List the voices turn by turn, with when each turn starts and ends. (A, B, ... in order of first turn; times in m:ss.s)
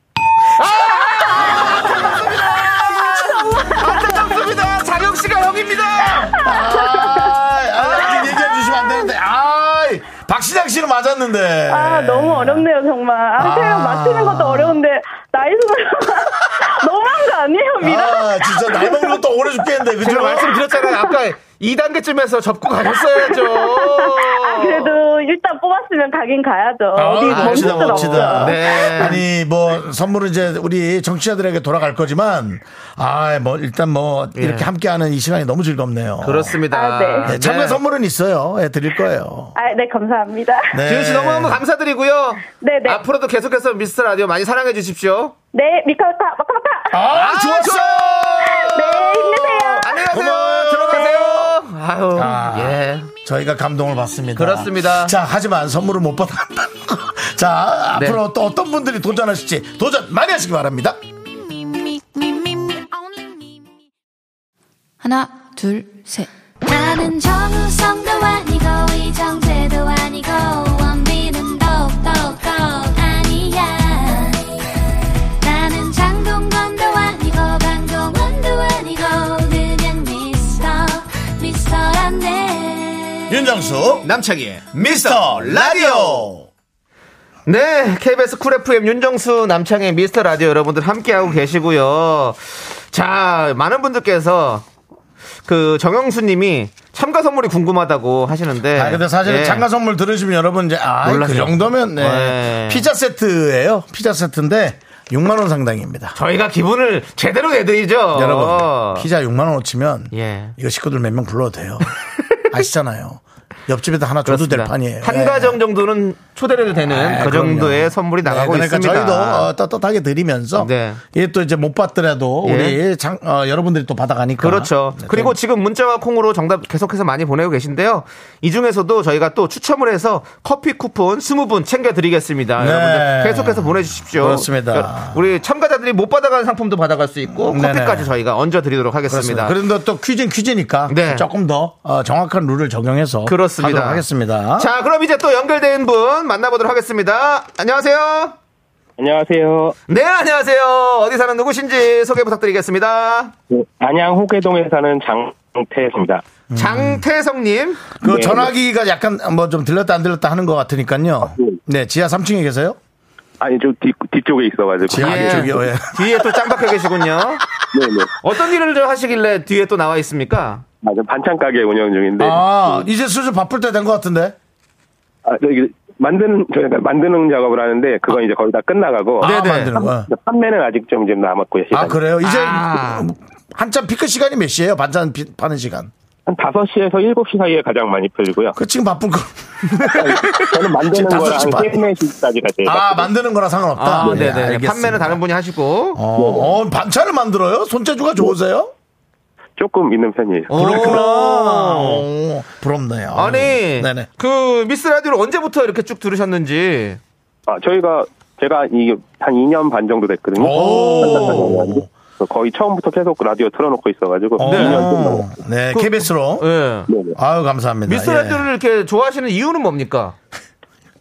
0:00.6-0:06.4 A
0:01.2-0:02.2 B
0:01.3-0:02.4 C
0:03.2-0:03.8 B
0:06.2-0:07.4 B
0:06.3-0:12.7 C
0:07.8-0:08.2 A
0:08.0-0:09.1 B
0:11.7-0:19.2 B
0:13.4-0:14.8 C
0:17.8-0:20.6 C
0:20.0-0:25.0 A
0:20.8-0:21.1 B
0:23.1-0:29.2 B
0:27.0-0:36.6 C
0:27.3-0:29.2 A
0:34.4-0:34.7 A
0:36.2-0:37.8 A
0:36.7-0:37.4 B
0:37.2-0:39.6 C
0:39.6-0:40.8 B
0:40.7-0:41.6 C
0:40.9-0:45.4 A
0:42.6-0:43.0 B
0:45.5-0:47.1 B
0:46.9-0:51.6 C
0:47.1-0:48.3 A
0:48.4-0:50.0 B
0:49.7-0:53.1 A
0:52.2-1:01.0 C
0:54.4-0:55.2 A
0:58.0-0:58.2 A
1:01.2-1:03.9 D
1:05.0-1:14.4 D
1:15.4-1:23.3 D
1:23.3-1:24.1 C
1:24.0-1:26.3 A
1:24.7-1:26.5 C
1:27.5-1:34.6 A
1:35.5-1:39.6 A
1:38.7-1:46.2 C
1:41.0-1:42.9 A
1:46.2-1:49.1 A
1:48.1-1:51.9 C
1:50.1-1:50.6 A
1:52.5-1:55.6 C
1:54.2-1:59.5 A
1:56.8-2:05.4 C
2:00.6-2:01.0 A
2:02.4-2:02.8 A
2:04.4-2:19.6 A
2:12.6-2:15.2 C
2:17.4-2:18.1 C
2:19.1-2:24.7 C
2:20.9-2:21.3 A
2:23.3-2:24.0 A
2:24.6-2:28.4 A
2:29.0-2:29.8 E
2:29.9-2:33.3 A
2:33.5-2:36.2 E
2:36.5-2:37.0 C
2:36.6-2:37.8 A
2:38.0-2:42.8 C
2:38.0-2:38.5 E
2:43.4-2:45.6 E
2:44.9-2:46.1 C
2:45.0-2:47.4 A
2:47.7-2:48.1 E
2:48.2-2:50.6 A
2:50.8-2:52.8 E
2:52.2-2:54.4 C
2:55.3-3:02.0 E
2:59.2-2:59.8 A
2:59.2-3:00.1 C
3:01.7-3:05.9 C
3:02.2-3:03.1 A
3:06.3-3:08.6 E
3:08.5-3:10.1 C
3:09.7-3:10.5 A
3:09.9-3:13.1 E
3:10.8-3:11.9 C
3:12.6-3:15.2 C
3:13.8-3:16.0 A
3:14.0-3:14.3 E
3:16.0-3:18.7 C
3:16.2-3:16.5 E
3:19.6-3:20.8 E
3:20.5-3:22.0 A
3:20.5-3:24.1 C
3:23.1-3:27.0 A
3:27.5-3:35.3 E
3:30.4-3:31.9 C
3:30.5-3:31.6 A
3:34.4-3:36.5 C
3:34.4-3:34.9 A
3:35.7-3:36.9 A
3:36.9-3:37.2 E
3:37.2-3:38.5 C
3:37.9-3:40.2 A